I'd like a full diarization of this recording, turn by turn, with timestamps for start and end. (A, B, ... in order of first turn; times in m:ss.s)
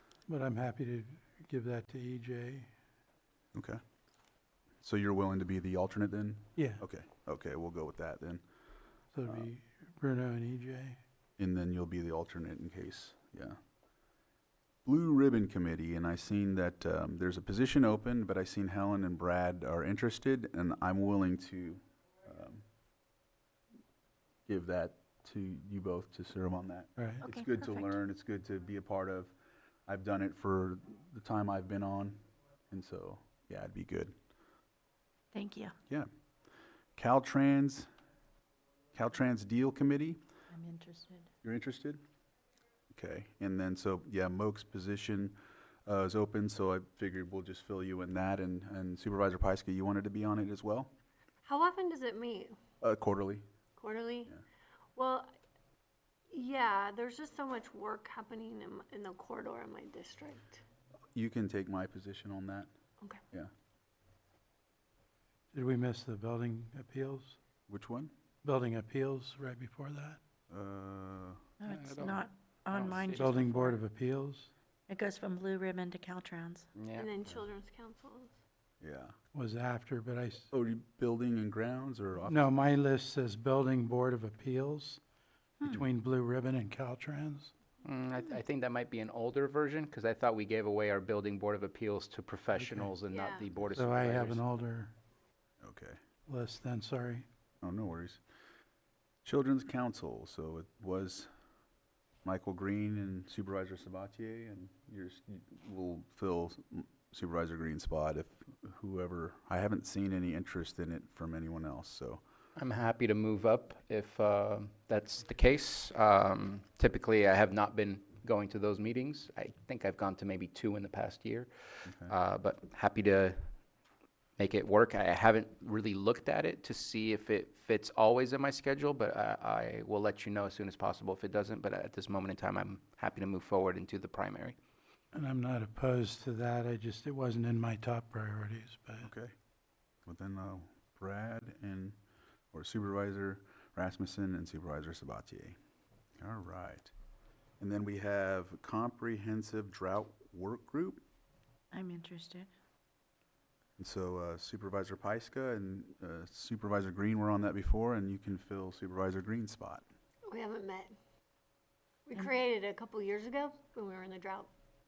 0:00.3-0:02.7 A
0:03.5-0:03.8 B
0:04.8-0:08.4 B
0:06.6-0:06.8 A
0:09.1-0:11.0 A
0:11.4-0:13.6 B
0:14.8-0:22.6 B
0:24.5-0:29.3 B
0:27.2-0:27.9 C
0:29.9-0:34.1 B
0:35.3-0:35.7 C
0:37.0-0:37.9 B
0:38.9-0:40.2 B
0:40.5-0:41.3 C
0:41.4-0:42.0 B
0:42.9-0:50.9 B
0:51.4-0:52.5 D
0:52.8-0:53.4 B
0:53.8-0:54.3 D
0:55.0-0:55.3 D
0:56.3-1:00.6 D
1:01.1-1:02.7 B
1:05.5-1:07.4 A
1:07.7-1:08.1 B
1:08.4-1:10.2 A
1:10.5-1:11.4 B
1:11.6-1:13.8 C
1:11.6-1:13.6 E
1:13.1-1:14.5 A
1:14.9-1:16.6 C
1:16.8-1:17.1 E
1:17.0-1:18.3 D
1:18.8-1:19.1 B
1:19.3-1:20.5 A
1:20.5-1:22.5 B
1:22.2-1:25.0 A
1:25.6-1:27.5 A
1:27.8-1:34.4 E
1:32.5-1:32.9 A
1:33.1-1:33.5 D
1:33.7-1:34.9 A
1:35.6-1:36.0 B
1:36.3-1:37.3 A
1:37.6-1:38.2 B
1:39.2-1:41.3 B
1:42.2-1:52.2 B
1:52.6-2:03.4 E
2:01.8-2:02.1 B
2:04.4-2:14.6 E
2:15.1-2:19.1 A
2:19.0-2:19.3 B
2:20.0-2:22.0 B
2:22.5-2:25.6 B
2:26.2-2:26.9 B
2:27.6-2:31.0 B
2:31.7-2:32.5 C
2:33.8-2:39.8 B
2:40.3-2:40.9 D
2:42.0-2:44.5 D